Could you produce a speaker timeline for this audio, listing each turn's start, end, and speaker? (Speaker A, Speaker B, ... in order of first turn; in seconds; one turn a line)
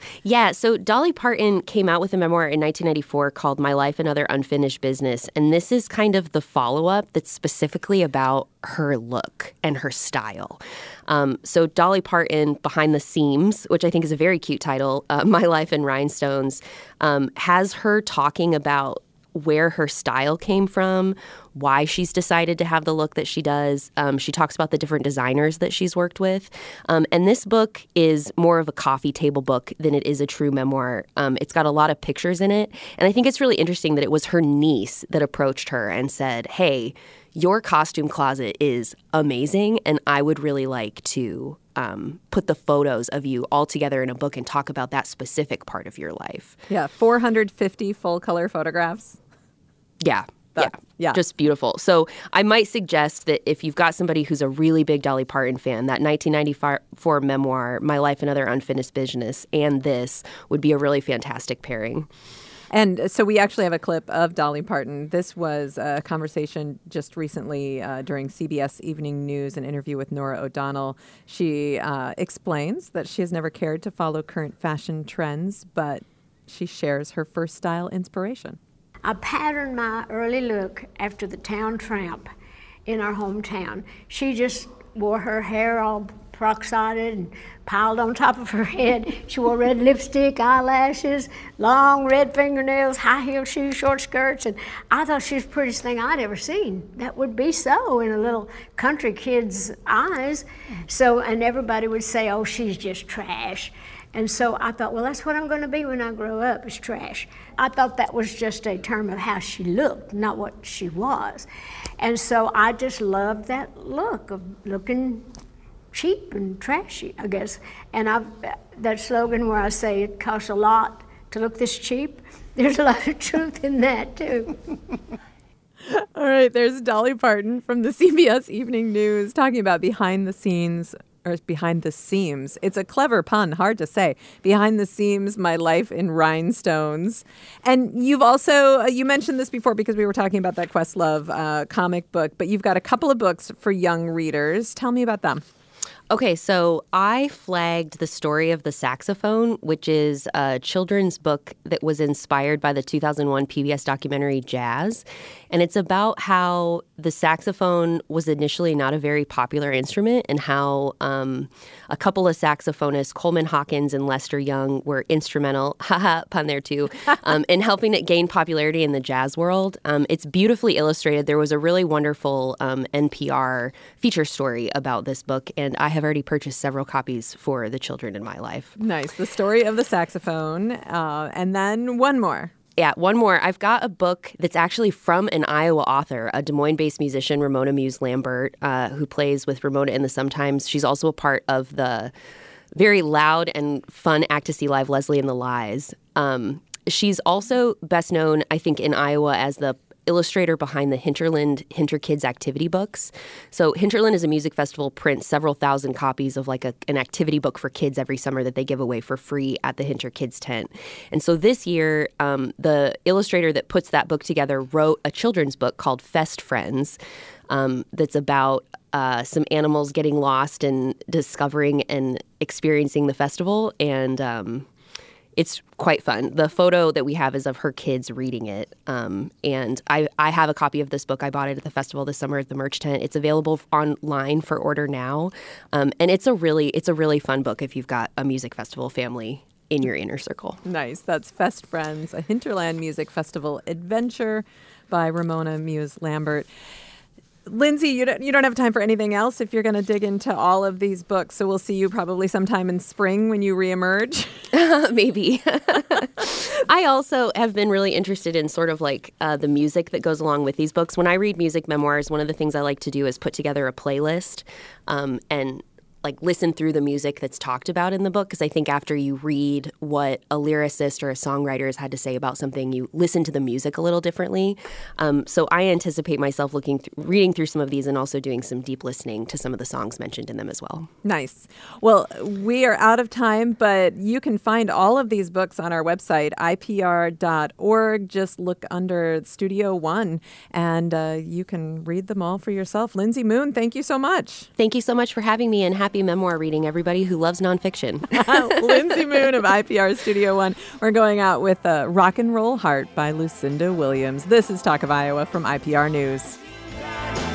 Speaker A: 0.2-46.6
Speaker B: 46.7-49.2
Speaker A: 50.0-62.1
Speaker B: 50.5-51.2
Speaker B: 62.7-78.6
Speaker C: 79.0-82.3
Speaker C: 82.8-111.5
Speaker C: 112.0-115.3
Speaker C: 115.9-124.6
Speaker B: 125.9-145.4
Speaker A: 146.1-178.7
Speaker B: 178.8-182.5
Speaker A: 182.8-192.1
Speaker A: 192.7-217.0
Speaker A: 217.5-224.7
Speaker A: 225.3-240.6
Speaker B: 240.6-246.5
Speaker B: 247.4-254.4
Speaker A: 254.5-280.9
Speaker B: 281.0-294.5
Speaker A: 294.6-298.9
Speaker B: 298.2-306.4